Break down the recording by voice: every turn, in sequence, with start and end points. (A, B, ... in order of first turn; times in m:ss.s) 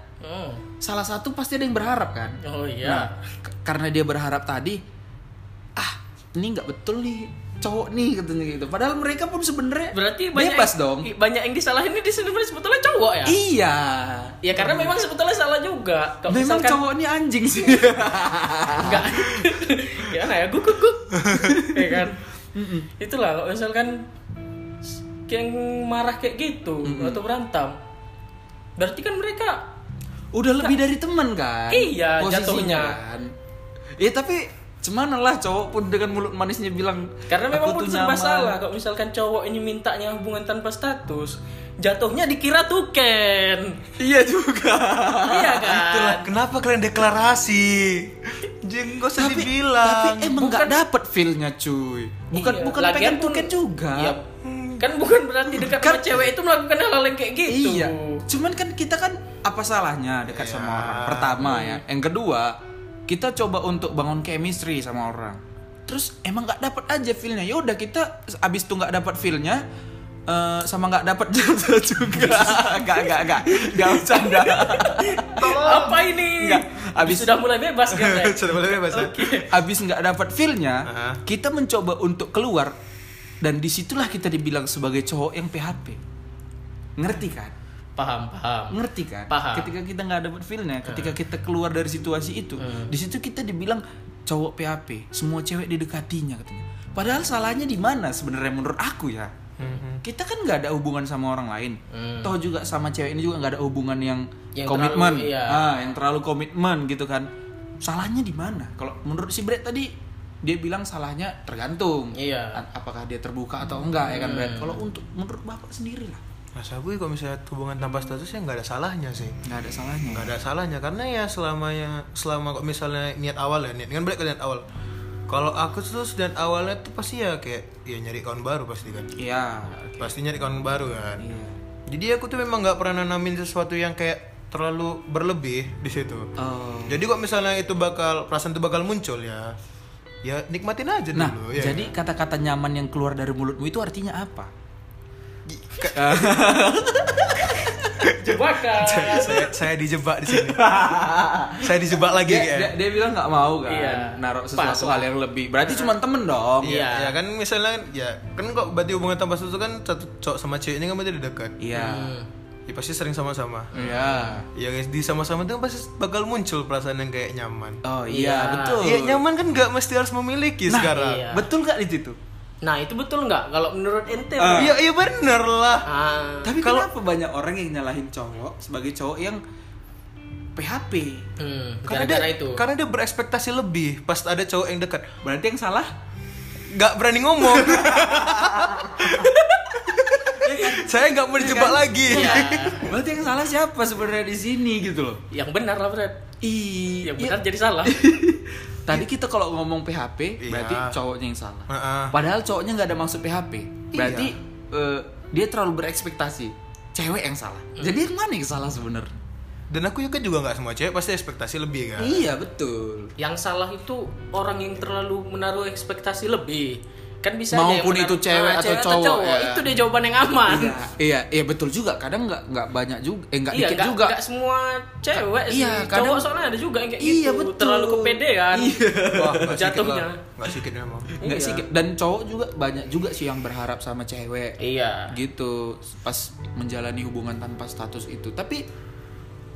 0:00.2-0:00.6 A
0:00.8-0:04.8 B
0:02.4-0:03.2 A
0:05.8-0:11.1 B
0:09.9-0:13.4 A
0:13.3-0:15.0 B
0:14.4-0:16.8 A
0:16.3-0:19.5 B
0:18.8-0:22.2 A
0:21.3-0:22.9 B
0:23.0-0:24.1 A
0:25.3-0:27.8 A
0:26.8-0:27.2 B
0:28.8-0:29.7 A
0:30.3-0:33.3 B
0:31.7-0:33.0 A
0:34.0-0:38.6 B
0:37.3-0:43.8 A
0:44.0-0:45.8 B
0:45.2-0:46.3 A
0:45.8-0:50.4 C
0:49.2-0:54.2 B
0:50.4-0:50.7 A
0:52.3-0:54.2 A
0:54.4-0:54.9 C
0:54.8-0:58.2 A
0:55.6-0:56.3 B
0:57.5-1:02.6 B
1:00.3-1:01.4 C
1:01.4-1:01.8 A
1:03.1-1:09.6 B
1:10.3-1:15.3 B
1:14.3-1:19.5 A
1:15.3-1:16.1 C
1:16.3-1:17.4 B
1:17.9-1:19.3 C
1:19.5-1:22.8 B
1:20.9-1:21.2 C
1:23.4-1:26.0 B
1:27.0-1:27.6 B
1:28.0-1:28.8 A
1:28.7-1:39.3 B
1:29.3-1:29.7 A
1:30.8-1:31.2 A
1:32.6-1:32.9 A
1:39.6-1:40.0 C
1:40.0-1:47.3 B
1:41.9-1:42.3 A
1:44.6-1:45.6 A
1:47.8-1:49.9 B
1:50.4-1:56.2 B
1:52.1-1:52.6 A
1:54.0-1:54.8 A
1:56.6-1:59.4 C
1:59.4-2:00.4 B
2:00.1-2:04.6 C
2:05.3-2:09.1 C
2:09.2-2:10.1 B
2:10.0-2:11.3 C
2:11.2-2:11.6 B
2:11.9-2:16.3 C
2:16.4-2:17.0 B
2:16.9-2:19.6 C
2:20.2-2:21.9 C
2:21.2-2:24.5 B
2:25.5-2:26.6 C
2:25.9-2:28.1 B
2:27.5-2:28.1 C
2:28.1-2:29.5 A
2:28.8-2:30.8 C
2:30.3-2:36.8 B
2:31.6-2:32.8 C
2:33.7-2:35.1 A
2:35.6-2:36.0 A
2:36.6-2:37.2 A
2:36.6-2:41.6 C
2:41.6-2:42.2 B
2:41.7-2:42.3 A
2:42.7-2:43.7 C
2:43.7-2:44.4 A
2:43.8-2:44.5 B
2:44.5-2:47.8 C
2:47.8-2:49.2 B
2:48.1-2:48.8 A
2:48.8-2:51.3 C
2:50.7-2:52.2 B
2:50.9-2:51.5 A
2:52.6-2:54.8 A
2:54.4-2:54.8 B
2:54.6-2:55.9 C
2:55.9-2:56.5 A
2:56.4-2:59.4 B
2:56.6-2:56.9 C
3:00.6-3:01.3 B
3:01.4-3:02.6 A
3:01.9-3:05.1 C
3:05.2-3:05.9 B
3:06.7-3:12.9 C
3:07.6-3:09.3 B
3:10.3-3:15.2 B
3:12.1-3:12.9 A
3:15.3-3:16.2 A
3:16.4-3:29.1 B
3:17.0-3:18.1 A
3:20.4-3:21.0 C
3:21.7-3:22.2 C
3:23.9-3:24.3 C
3:29.7-3:32.3 C
3:32.0-3:33.1 B
3:33.2-3:40.8 A
3:37.5-3:39.7 B
3:40.3-3:44.2 B
3:43.5-3:48.8 A
3:45.2-3:46.3 B
3:47.0-3:49.6 B
3:49.0-3:51.2 C
3:49.5-3:50.2 A
3:51.2-3:51.6 A
3:51.2-3:54.6 B
3:54.6-3:55.2 A
3:55.1-3:58.6 B